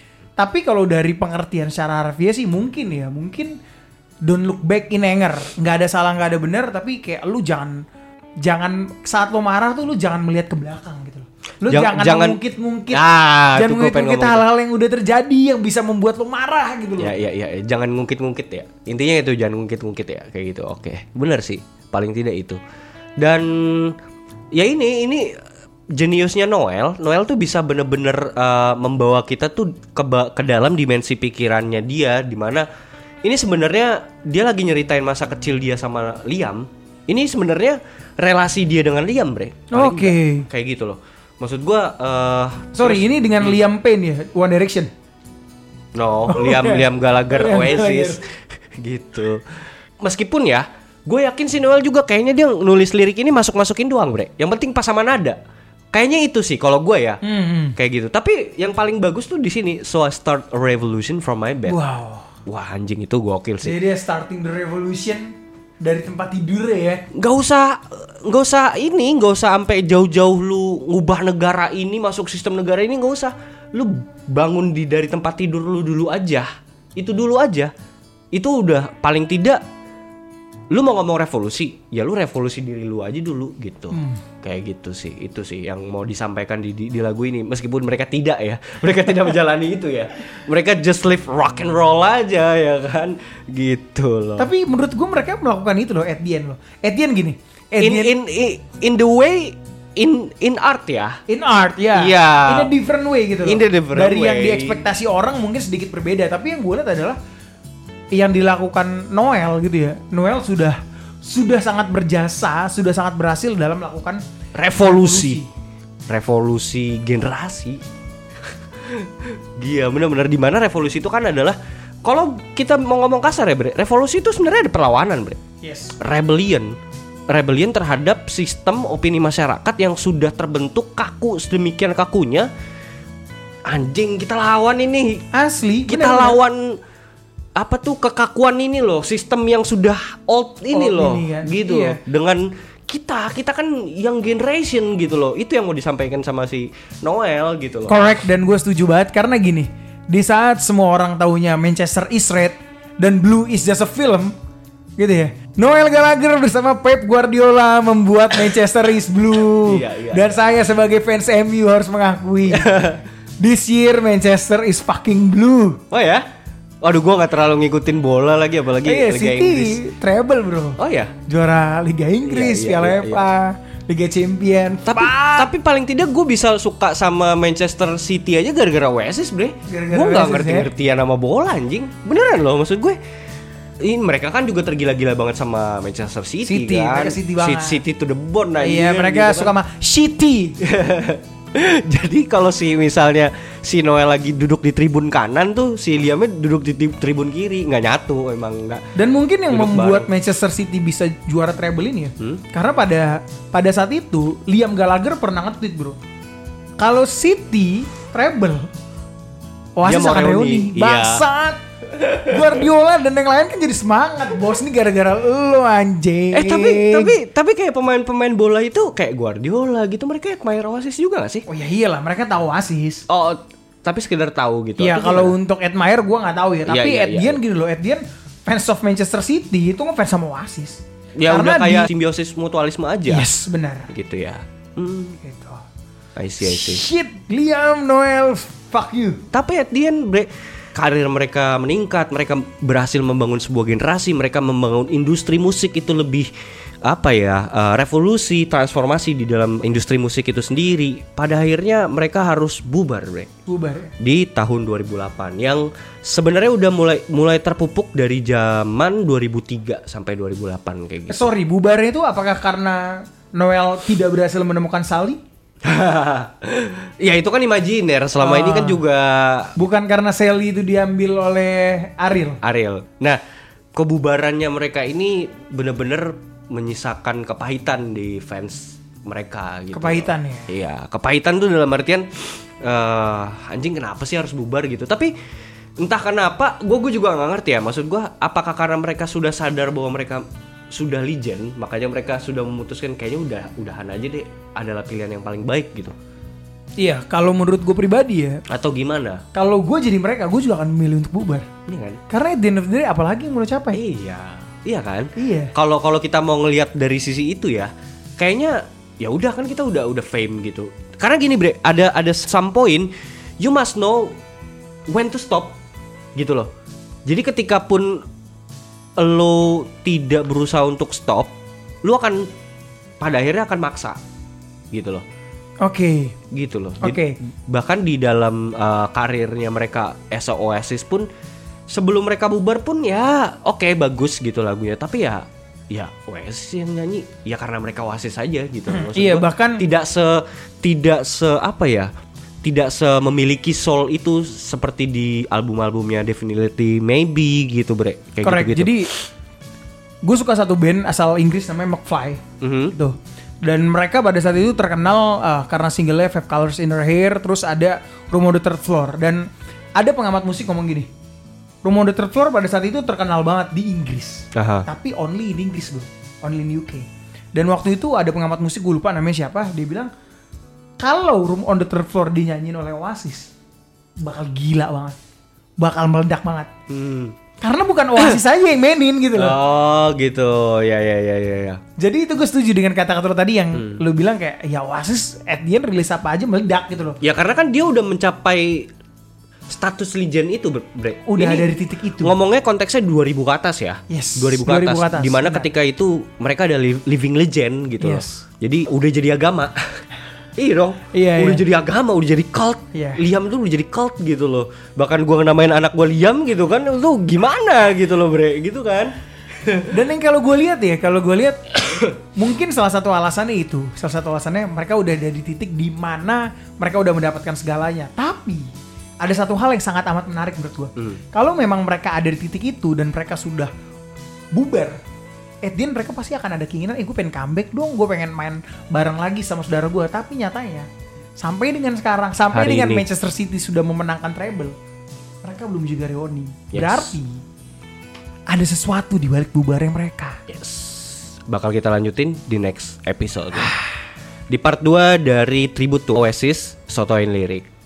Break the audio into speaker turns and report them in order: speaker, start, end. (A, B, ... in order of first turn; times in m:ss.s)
0:00.4-0:03.5 A
0:04.2-0:07.8 A
0:08.4-0:13.0 A
0:11.7-0:12.4 B
0:12.9-0:14.4 B
0:13.5-0:17.1 A
0:17.0-0:22.6 B
0:23.2-0:24.0 B
0:24.5-0:25.4 B
0:25.9-0:32.7 B
0:33.2-0:43.6 B
0:39.7-0:40.5 A
0:42.8-0:44.9 A
0:45.9-0:48.2 B
0:46.3-0:46.8 A
0:47.4-0:48.2 A
0:48.8-0:55.4 B
0:55.9-0:57.2 B
0:57.2-0:57.8 A
0:57.8-1:01.8 B
1:01.6-1:02.3 A
1:02.4-1:03.8 B
1:03.6-1:07.0 A
1:07.1-1:17.7 B
1:18.3-1:19.6 B
1:20.7-1:34.5 B
1:23.9-1:24.2 A
1:34.4-1:38.1 A
1:37.8-1:41.2 B
1:41.3-1:47.2 A
1:41.9-1:42.7 B
1:43.4-1:44.8 B
1:48.1-1:54.2 A
1:54.5-1:55.4 B
1:54.8-1:55.5 A
1:56.1-1:57.8 B
1:58.8-2:05.4 B
2:05.6-2:05.9 A
2:06.0-2:06.7 B
2:07.3-2:12.5 B
2:13.6-2:15.2 B
2:15.3-2:16.4 A
2:15.9-2:16.8 B
2:17.6-2:28.0 B
2:20.7-2:22.0 A
2:27.9-2:34.3 A
2:35.0-2:45.8 A
2:39.6-2:40.3 B
2:42.5-2:43.0 B
2:45.9-2:46.2 B
2:46.8-2:49.8 B
2:48.8-2:55.5 A
2:50.8-2:51.1 B
2:52.2-2:53.2 B
2:54.9-3:03.0 B
2:59.7-3:00.7 A
3:03.8-3:09.5 B
3:06.4-3:07.8 A
3:08.6-3:10.6 A
3:10.6-3:18.8 B
3:19.0-3:26.0 A
3:19.5-3:20.1 B
3:26.8-3:28.7 A
3:29.8-3:31.6 A
3:29.8-3:31.2 B
3:32.0-3:32.4 B
3:32.2-3:37.2 A
3:36.3-3:41.4 B
3:41.5-3:43.0 A
3:43.1-3:45.3 B
3:44.8-3:51.9 A
3:46.7-3:47.4 B
3:51.2-3:53.3 B
3:53.1-3:53.9 A
3:53.9-3:55.2 B
3:55.2-3:55.6 A
3:56.2-3:56.8 B
3:56.4-3:59.2 A
3:59.3-4:06.3 B
4:06.8-4:13.3 B
4:13.5-4:13.9 A
4:14.0-4:21.3 B
4:21.1-4:25.2 A
4:25.6-4:29.6 B
4:28.2-4:28.8 A
4:29.6-4:32.4 A
4:32.4-4:33.2 B
4:33.7-4:45.1 B
4:39.7-4:40.5 A
4:45.8-4:55.9 B
4:56.8-4:58.4 A
4:58.5-4:59.2 B
4:59.3-5:01.5 A
5:01.7-5:02.0 B
5:02.1-5:03.8 A
5:03.7-5:14.2 B
5:05.2-5:05.5 A
5:14.9-5:15.5 B
5:16.2-5:16.5 B
5:17.0-5:18.0 B
5:19.0-5:21.3 B
5:21.8-5:22.3 B
5:23.0-5:24.0 B
5:24.7-5:25.0 B
5:25.6-5:26.1 A
5:26.3-5:31.1 B
5:26.8-5:27.2 A
5:31.7-5:41.9 B
5:38.7-5:39.6 A
5:42.4-5:48.9 B
5:48.2-5:48.9 A
5:50.0-6:00.9 A
5:52.4-5:52.7 B
6:01.6-6:09.9 A
6:04.3-6:04.6 B
6:10.8-6:13.3 A
6:14.0-6:15.0 A
6:15.6-6:16.5 A
6:16.7-6:17.2 B
6:17.4-6:19.4 A
6:19.1-6:21.6 B
6:21.8-6:27.0 A
6:23.5-6:23.8 B
6:27.0-6:28.7 B
6:29.5-6:31.5 B
6:31.1-6:32.1 A
6:32.0-6:39.8 B
6:33.9-6:35.5 A
6:37.8-6:38.2 A
6:40.4-6:49.7 B
6:40.9-6:41.4 A
6:42.7-6:43.0 A
6:49.7-6:58.5 A
6:51.7-6:51.9 B
6:59.0-7:03.5 A
7:04.3-7:04.8 A
7:05.4-7:14.6 A
7:12.3-7:12.8 B
7:15.2-7:17.2 A
7:16.5-7:16.9 B
7:18.3-7:20.2 A
7:20.3-7:23.5 B
7:24.3-7:27.5 B